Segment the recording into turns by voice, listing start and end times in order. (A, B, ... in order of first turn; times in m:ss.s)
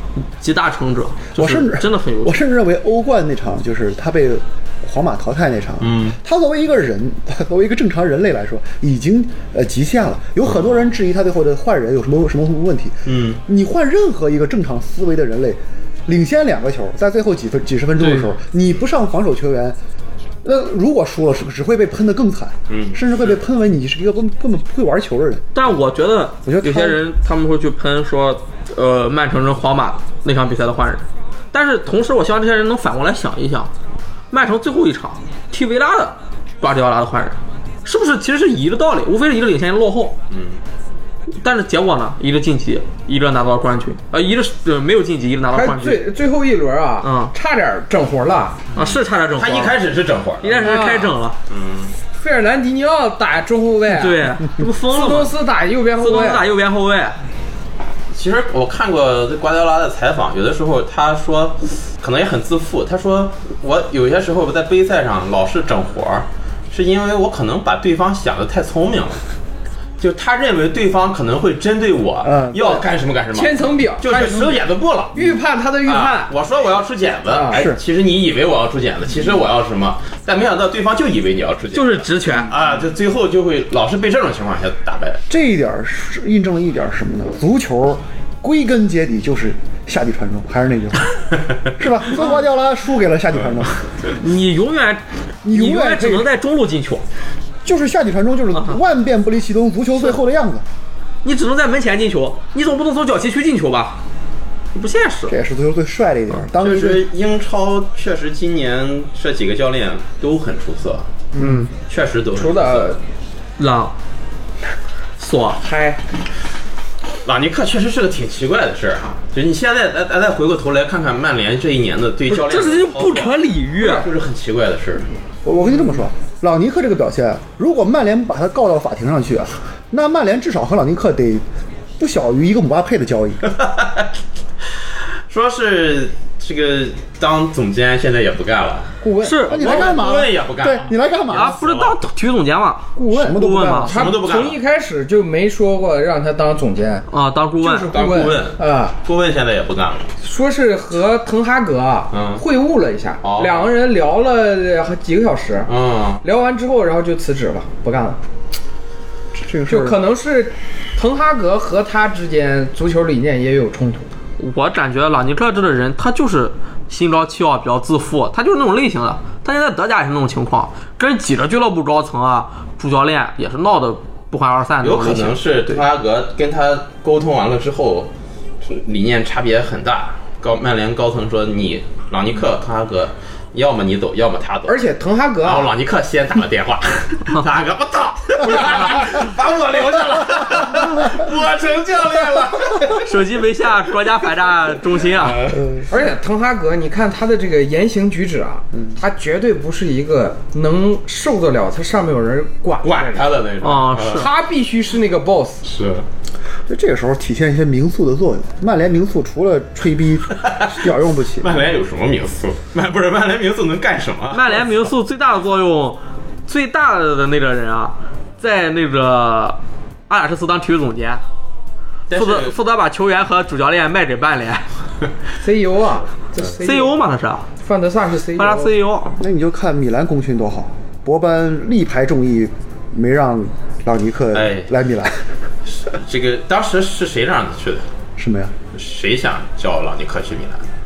0:00.4-0:02.4 A
0:01.3-0:19.8 B
0:05.8-0:06.2 C
0:13.0-0:13.4 C
0:18.0-0:18.3 A
0:20.4-0:25.5 B
0:22.7-0:23.0 C
0:25.5-0:33.7 A
0:26.4-0:27.0 B
0:34.3-0:40.1 A
0:40.3-0:40.6 C
0:41.4-0:46.1 A
0:45.5-0:48.6 D
0:47.0-0:47.3 A
0:48.7-0:50.8 C
0:48.7-0:49.8 A
0:50.4-0:51.4 A
0:50.6-0:51.2 D
0:51.5-0:51.9 C
0:52.1-0:54.3 D
0:53.9-0:55.4 A
0:54.8-0:56.4 D
0:56.0-0:57.2 A
0:58.1-1:09.2 C
1:10.0-1:15.3 C
1:12.2-1:12.8 B
1:13.3-1:14.6 D
1:15.1-1:16.3 D
1:15.8-1:25.2 C
1:17.3-1:17.6 D
1:17.5-1:17.8 B
1:21.7-1:22.5 A
1:25.3-1:33.8 B
1:34.2-1:37.0 A
1:35.4-1:36.3 B
1:37.6-1:40.6 B
1:41.2-1:44.0 A
1:44.7-1:45.3 A
1:45.3-1:47.0 B
1:46.6-1:51.1 C
1:51.3-1:51.6 D
1:51.4-1:51.7 A
1:51.9-1:52.9 C
1:52.3-1:53.0 D
1:53.6-1:53.9 A
1:55.2-1:55.6 A
1:55.6-1:56.0 D
1:57.2-2:05.1 C
2:02.3-2:04.1 A
2:05.4-2:11.4 B
2:12.0-2:13.5 B
2:13.5-2:14.1 C
2:15.3-2:18.9 C
2:19.0-2:19.4 D
2:19.2-2:19.8 A
2:19.4-2:21.6 B
2:19.4-2:22.0 C
2:21.3-2:23.9 A
2:23.0-2:27.1 D
2:23.1-2:24.0 B
2:23.8-2:24.6 C
2:27.1-2:28.1 A
2:27.6-2:30.1 C
2:27.9-2:29.0 D
2:30.2-2:38.2 D
2:32.1-2:32.4 C
2:33.2-2:33.7 C
2:35.7-2:36.2 C
2:39.4-2:40.0 B
2:39.7-2:44.1 D
2:44.4-2:55.8 A
2:54.8-3:04.8 C
3:04.6-3:05.7 D
3:05.4-3:13.0 C
3:12.8-3:15.6 A
3:15.0-3:15.6 C
3:15.5-3:15.8 B
3:15.9-3:23.3 D
3:22.8-3:24.3 C
3:23.6-3:24.3 A
3:24.1-3:25.6 D
3:25.6-3:26.0 C
3:26.7-3:31.6 B
3:30.4-3:34.7 C
3:34.3-3:41.2 A
3:42.1-3:42.6 C
3:42.1-3:44.7 A
3:45.4-3:47.0 D
3:46.6-3:47.5 A
3:47.6-3:48.7 D
3:48.4-3:49.2 A
3:49.2-3:55.3 B
3:54.3-3:54.7 C
3:55.7-3:57.9 C
3:58.2-3:58.5 B
3:58.7-4:00.6 C